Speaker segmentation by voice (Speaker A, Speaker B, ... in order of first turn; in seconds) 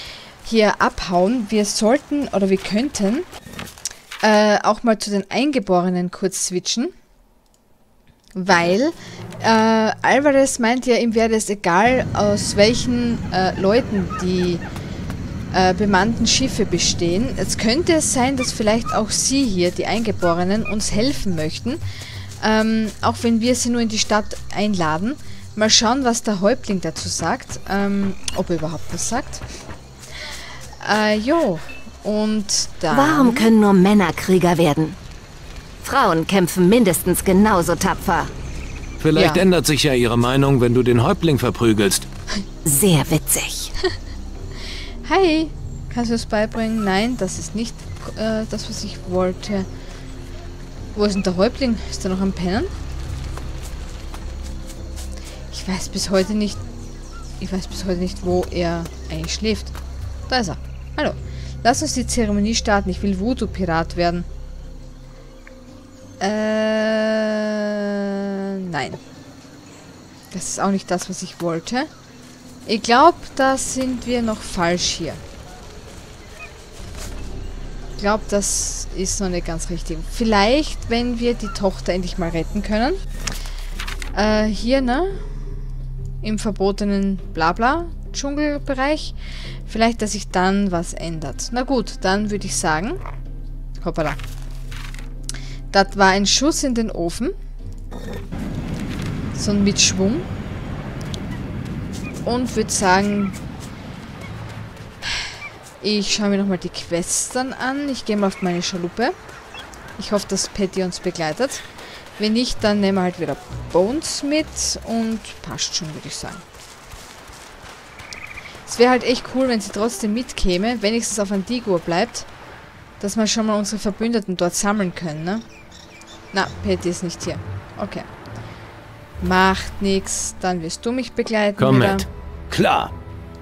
Speaker A: 0.4-3.3, 4.2-6.9, 8.3-14.6, 15.5-21.8, 22.4-29.4, 30.8-33.5, 39.1-39.4, 45.0-49.7, 50.9-52.7, 55.5-56.6, 57.4-59.7, 60.3-64.3, 66.2-69.0, 70.3-71.9, 72.7-75.2, 78.0-83.0, 84.1-85.3, 86.2-89.2, 89.7-93.0, 93.8-94.2, 95.7-97.3, 99.3-100.3, 102.2-103.4, 105.1-109.1, 110.0-111.6, 112.2-116.4, 118.7-122.3, 123.0-125.4, 126.3-128.1, 129.2-132.1
Speaker B: 32.9-35.0, 35.8-38.3, 42.6-43.7
Speaker C: 39.0-42.1, 131.6-132.9